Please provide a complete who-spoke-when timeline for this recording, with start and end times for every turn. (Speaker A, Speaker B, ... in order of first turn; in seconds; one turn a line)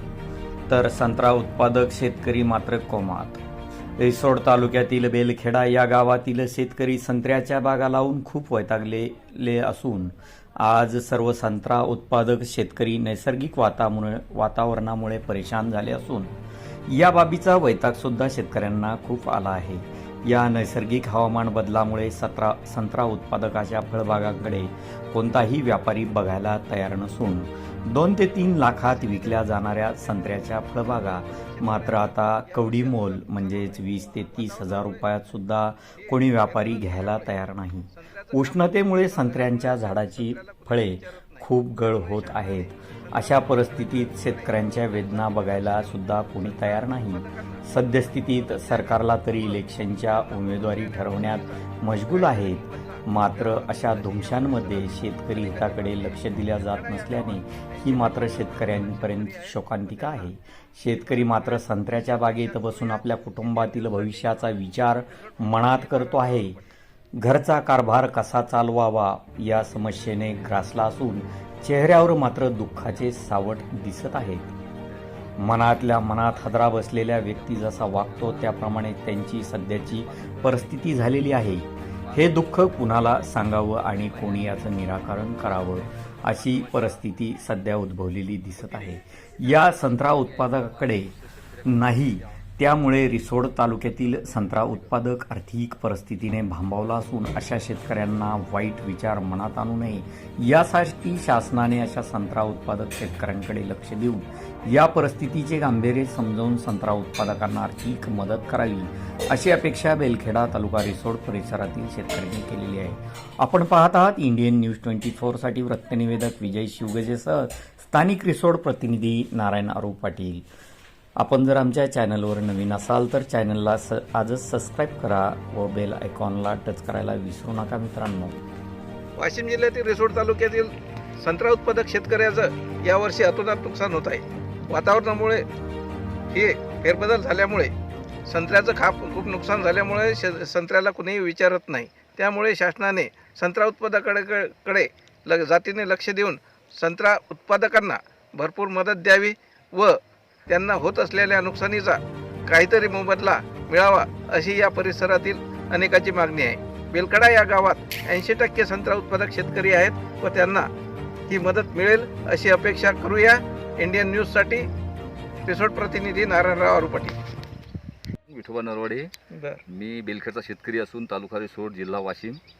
Speaker A: 0.7-3.4
Speaker A: 4.0-16.3
Speaker A: 16.9-66.6
Speaker B: 28.8-35.2
Speaker B: 36.0-60.3
Speaker B: 60.9-66.6
Speaker A: 67.2-74.5
Speaker A: 75.4-91.1
Speaker C: 76.1-78.8
Speaker C: 80.0-81.3
Speaker C: 82.0-87.3
Speaker C: 88.6-92.4
Speaker A: 91.6-120.4
Speaker C: 93.7-95.0
Speaker A: 121.2-128.4
Speaker B: 129.2-135.4
Speaker B: 136.3-137.7
Speaker B: 138.2-160.7
Speaker B: 161.3-164.7
Speaker B: 165.4-167.2
Speaker C: 168.3-169.1
Speaker B: 169.3-169.6
Speaker C: 169.7-172.4